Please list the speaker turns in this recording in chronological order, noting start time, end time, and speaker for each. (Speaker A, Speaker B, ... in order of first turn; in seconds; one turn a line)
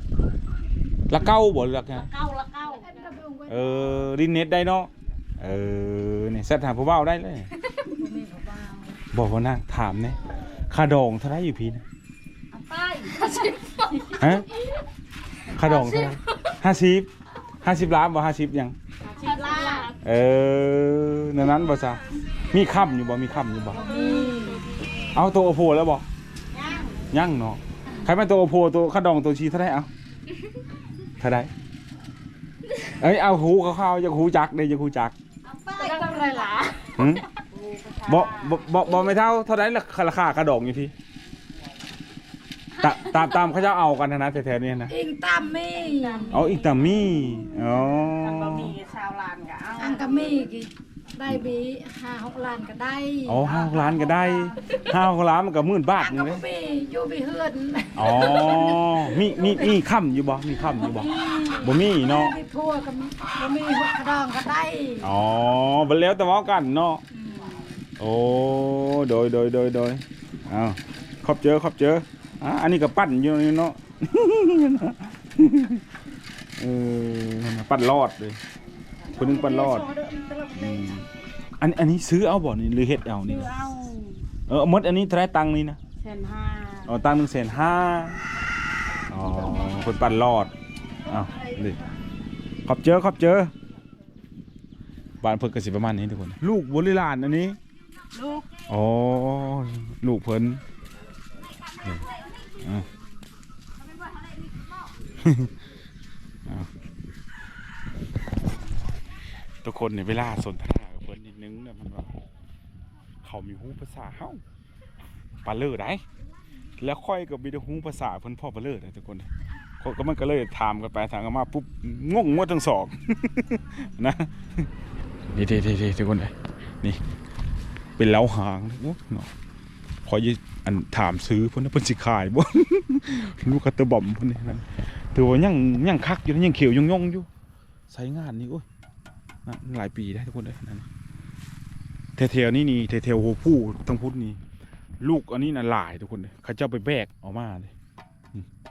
Speaker A: 1.1-2.1
Speaker B: 2.0-3.0
Speaker C: 2.2-4.1
Speaker A: 3.5-7.5
Speaker C: 7.9-9.0
Speaker A: 9.1-10.2
Speaker A: 10.7-11.8
Speaker B: 12.5-14.1
Speaker C: 13.0-14.2
Speaker A: 14.2-14.5
Speaker A: 15.5-17.1
Speaker C: 15.7-16.1
Speaker A: 17.6-18.8
Speaker B: 19.1-19.9
Speaker C: 19.2-19.9
Speaker A: 20.0-23.8
Speaker C: 23.7-24.7
Speaker B: 23.8-25.1
Speaker A: 25.1-26.1
Speaker B: 26.5-27.0
Speaker A: 27.1-29.9
Speaker A: 31.2-31.5
Speaker A: 32.8-35.1
Speaker B: 35.5-36.5
Speaker C: 35.8-36.9
Speaker A: 37.0-37.2
Speaker B: 37.5-39.0
Speaker A: 38.0-40.9
Speaker A: 42.8-44.9
Speaker C: 44.9-46.4
Speaker B: 45.7-50.3
Speaker A: 46.3-48.8
Speaker C: 49.8-54.8
Speaker A: 53.2-56.4
Speaker C: 56.0-59.7
Speaker A: 58.0-62.4
Speaker C: 60.7-65.1
Speaker A: 65.0-67.0
Speaker C: 67.1-67.6
Speaker A: 68.0-75.8
Speaker A: 76.6-78.4
Speaker C: 79.1-81.0
Speaker A: 79.2-79.9
Speaker A: 80.5-81.1
Speaker A: 81.6-83.5
Speaker C: 83.3-84.2
Speaker A: 84.5-85.8
Speaker C: 86.0-86.9
Speaker A: 86.9-88.2
Speaker A: 89.1-90.5
Speaker A: 91.1-91.8
Speaker B: 91.1-91.6
Speaker A: 92.7-93.5
Speaker A: 95.2-97.6
Speaker B: 98.1-98.5
Speaker A: 98.7-100.6
Speaker B: 101.5-102.6
Speaker A: 102.6-102.9
Speaker B: 103.8-104.9
Speaker A: 105.2-105.5
Speaker A: 109.6-112.2
Speaker A: 113.2-114.4
Speaker A: 115.5-116.0
Speaker A: 116.8-119.3
Speaker A: 119.8-124.7
Speaker A: 125.3-127.0
Speaker A: 128.0-129.3
Speaker A: 130.1-137.3
Speaker A: 137.9-138.6
Speaker A: 139.5-140.8
Speaker A: 142.2-144.4
Speaker A: 145.0-147.7